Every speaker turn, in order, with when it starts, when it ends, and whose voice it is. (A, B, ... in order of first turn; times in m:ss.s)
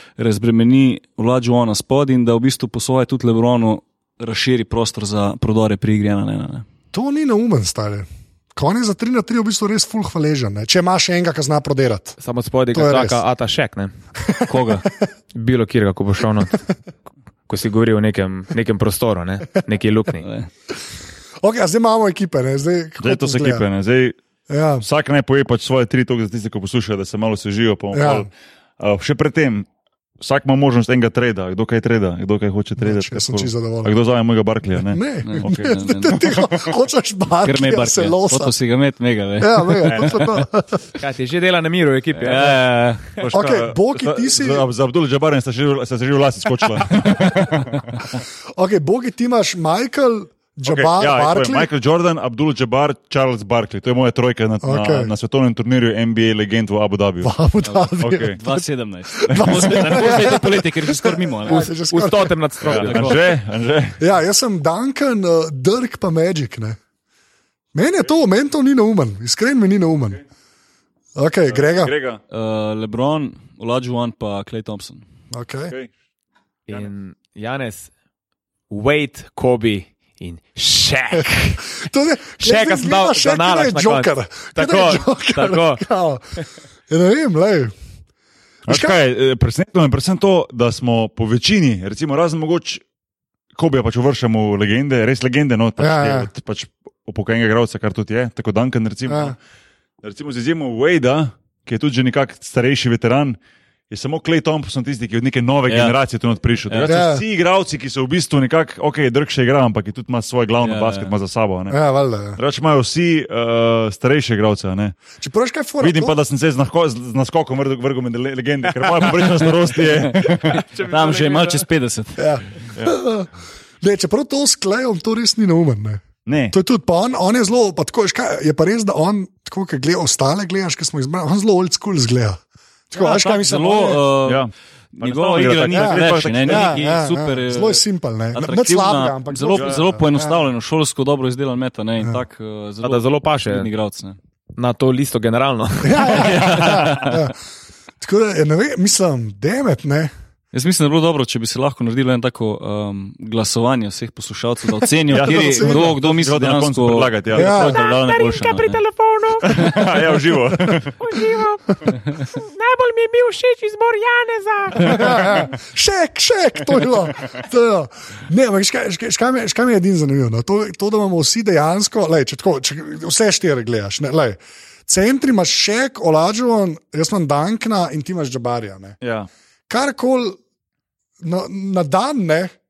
0:00.2-0:06.6 A
0:06.9-0:12.2 B
0:12.2-0:13.9 C
0:12.7-0:13.2 B
0:14.2-0:14.9 B
0:14.4-0:14.9 A
0:15.3-0:16.6 C
0:17.5-0:20.3 C
0:20.2-0:20.5 A
0:21.4-0:23.6 B
0:23.0-0:24.2 D
0:24.5-0:24.8 B
0:24.8-0:29.7 D
0:27.9-0:28.3 B
0:30.2-0:35.8 D
0:32.8-0:34.0 B
0:34.8-0:38.5 B
0:35.2-0:36.3 A
0:37.4-0:40.2 A
0:39.4-0:40.8 B
0:39.8-0:40.2 D
0:41.0-0:42.6 C
0:42.1-0:43.0 A
0:43.2-0:48.1 D
0:43.3-0:44.6 B
0:48.6-0:51.7 B
0:50.6-0:57.3 D
0:54.6-0:55.1 B
0:57.2-1:02.4 B
0:57.6-1:01.7 A
0:58.0-0:58.4 D
0:59.3-1:00.0 D
1:01.5-1:03.2 C
1:02.6-1:04.0 D
1:02.8-1:03.2 A
1:04.0-1:06.8 B
1:07.7-1:10.2 B
1:11.1-1:11.9 B
1:11.5-1:12.2 D
1:12.3-1:15.0 A
1:15.3-1:15.7 B
1:16.7-1:17.9 C
1:18.7-1:21.6 C
1:21.1-1:27.7 B
1:22.4-1:25.8 C
1:28.7-1:29.0 B
1:28.7-1:32.8 D
1:33.6-1:39.4 D
1:35.8-1:36.3 B
1:39.1-1:39.3 B
1:40.0-1:43.4 D
1:43.9-1:51.8 D
1:45.7-1:45.9 A
1:46.7-1:47.0 A
1:46.8-1:47.2 B
1:50.6-1:51.1 A
1:51.7-1:52.4 B
1:52.4-1:55.0 D
1:55.2-1:56.2 B
1:55.8-2:00.6 D
1:59.8-2:02.3 A
2:00.5-2:01.6 C
2:02.2-2:03.3 B
2:03.8-2:14.0 B
2:06.2-2:06.6 D
2:12.9-2:14.5 A
2:14.2-2:16.9 D
2:15.0-2:17.8 A
2:15.7-2:20.4 B
2:18.3-2:24.2 A
2:19.5-2:19.8 D
2:22.8-2:23.7 C
2:24.6-2:26.5 C
2:25.8-2:27.3 B
2:26.0-2:27.2 A
2:28.0-2:30.1 B
2:30.5-2:38.8 A
2:35.1-2:37.7 D
2:35.1-2:35.9 B
2:37.3-2:37.8 B
2:37.6-2:39.8 E
2:39.4-2:41.0 D
2:41.0-2:45.2 E
2:44.8-2:59.0 B
2:44.9-2:45.4 D
2:59.0-2:59.3 D
2:59.7-3:00.4 B
3:01.2-3:02.5 B